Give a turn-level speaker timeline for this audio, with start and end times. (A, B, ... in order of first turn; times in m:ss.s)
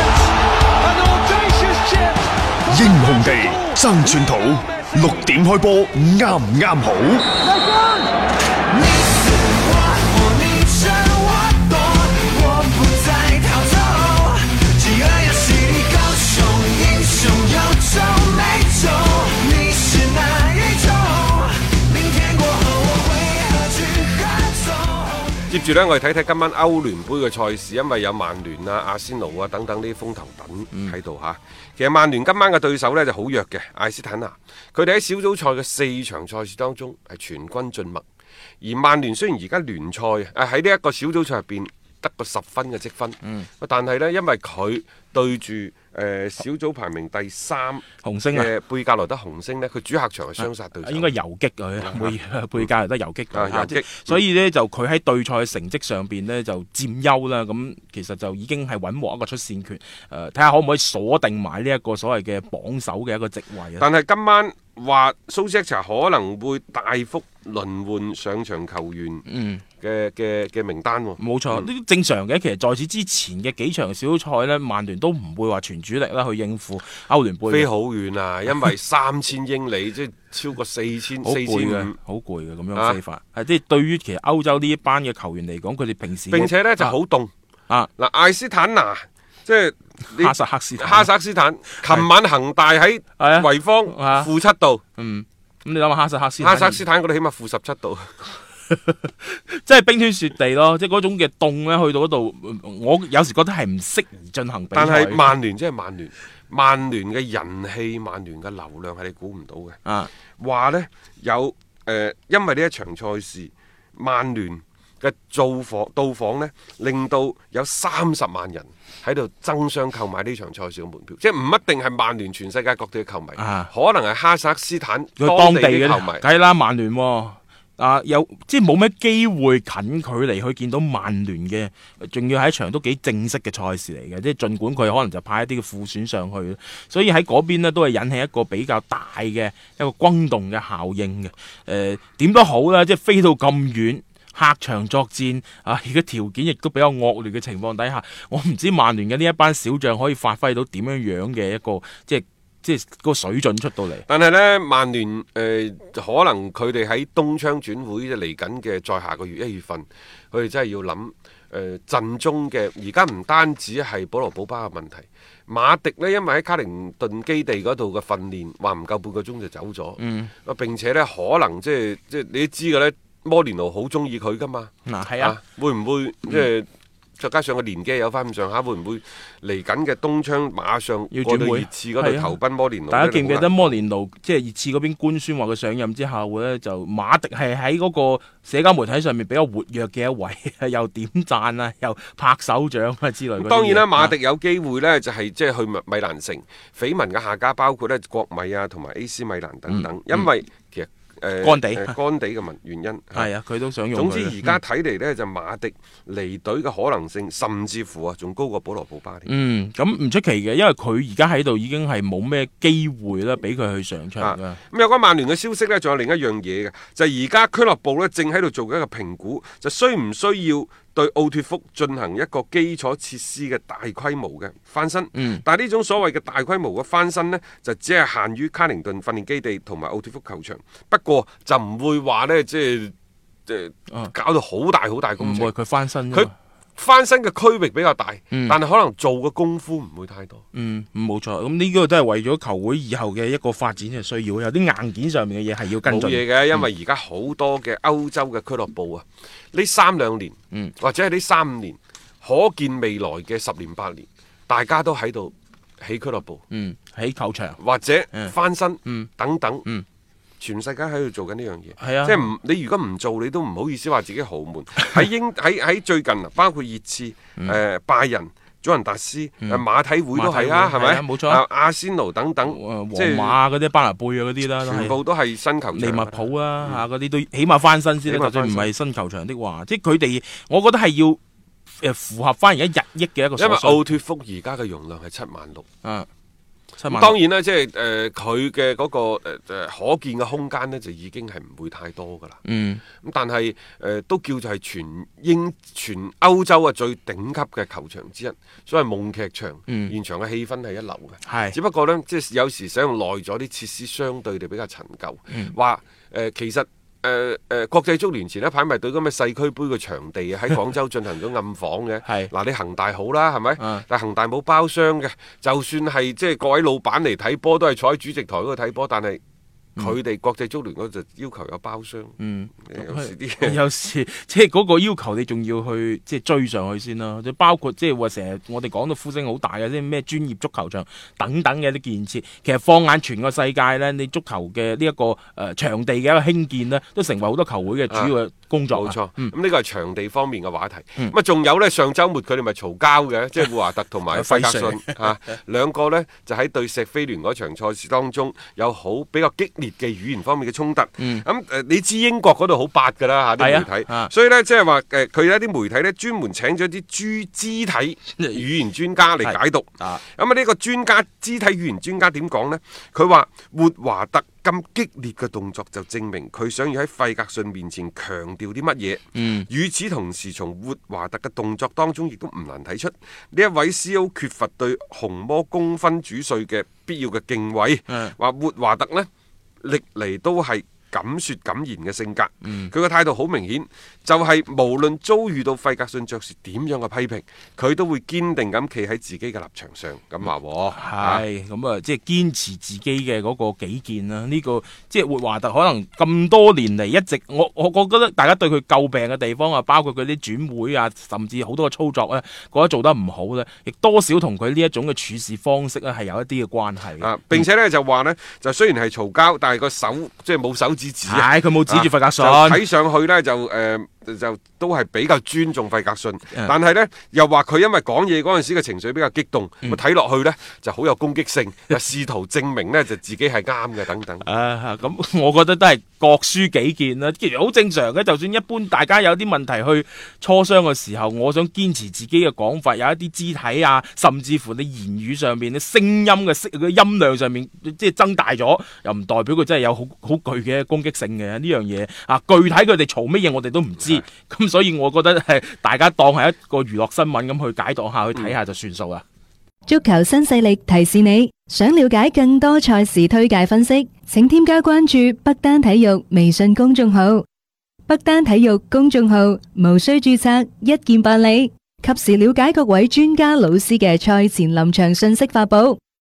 0:02.7-0:07.3 A
0:09.8-0:20.2 B
0:22.1-0:22.5 C
0:25.5-0:38.0 C
0:38.6-0:51.2 C
0:43.2-0:43.5 D
0:48.0-0:48.5 D
0:50.4-1:03.9 D
0:51.8-0:52.2 C
0:53.3-0:54.2 C
1:03.8-1:09.2 C
1:09.3-1:09.6 D
1:09.8-1:11.7 C
1:11.2-1:17.7 D
1:17.5-1:22.0 C
1:21.2-1:27.0 D
1:22.8-1:23.0 C
1:26.3-1:27.3 C
1:28.0-1:34.8 C
1:30.1-1:31.1 D
1:33.2-1:34.3 D
1:35.0-1:36.8 D
1:36.4-1:38.3 C
1:38.7-1:45.2 D
1:44.7-1:49.8 C
1:49.8-1:50.1 D
1:50.4-2:06.2 C
2:03.4-2:03.7 D
2:05.2-2:34.0 D
2:34.1-2:56.7 C
2:50.0-2:50.3 D
2:54.8-2:55.4 D
2:57.2-3:03.8 C
3:01.1-3:02.4 D
3:02.9-3:14.2 D
3:13.4-3:23.3 C
3:19.7-3:20.3 D
3:21.4-3:22.0 D
3:23.1-3:24.6 D
3:23.9-3:29.3 C
3:29.2-3:34.6 D
3:34.2-3:52.9 C
3:45.2-3:45.4 D
3:53.5-3:55.5 C
3:55.2-3:56.3 D
3:56.1-4:00.4 C
3:58.3-3:58.6 D
4:00.5-4:06.6 D
4:05.8-4:16.4 C
4:16.5-4:17.6 D
4:17.6-4:19.7 C
4:18.8-4:19.1 D
4:20.4-4:33.4 C
4:21.8-4:22.3 D
4:29.4-4:31.4 D
4:32.4-4:35.0 D
4:34.6-4:36.8 C
4:35.7-4:41.2 D
4:38.1-4:38.7 C
4:41.8-4:44.0 D
4:43.4-4:45.6 C
4:45.8-4:46.1 D
4:46.8-4:47.2 D
4:46.9-4:52.4 C
4:52.4-4:52.8 D
4:53.0-5:19.2 C
4:59.7-4:59.9 D
5:01.2-5:01.6 D
5:12.0-5:12.3 D
5:13.6-5:13.8 D
5:19.8-5:23.6 C
5:22.2-5:39.3 D
5:38.7-6:19.1 C
5:44.1-5:45.1 D
5:51.0-5:51.2 D
5:53.4-5:54.1 D
5:59.2-6:00.0 D
6:09.2-6:09.5 D
6:17.9-6:18.2 D
6:19.6-6:31.2 C
6:22.4-6:22.7 D
6:30.7-6:47.4 D
6:47.0-7:04.2 C
6:51.0-6:52.6 D
7:04.2-7:29.0 D
7:29.7-7:37.3 B
7:37.9-7:45.8 B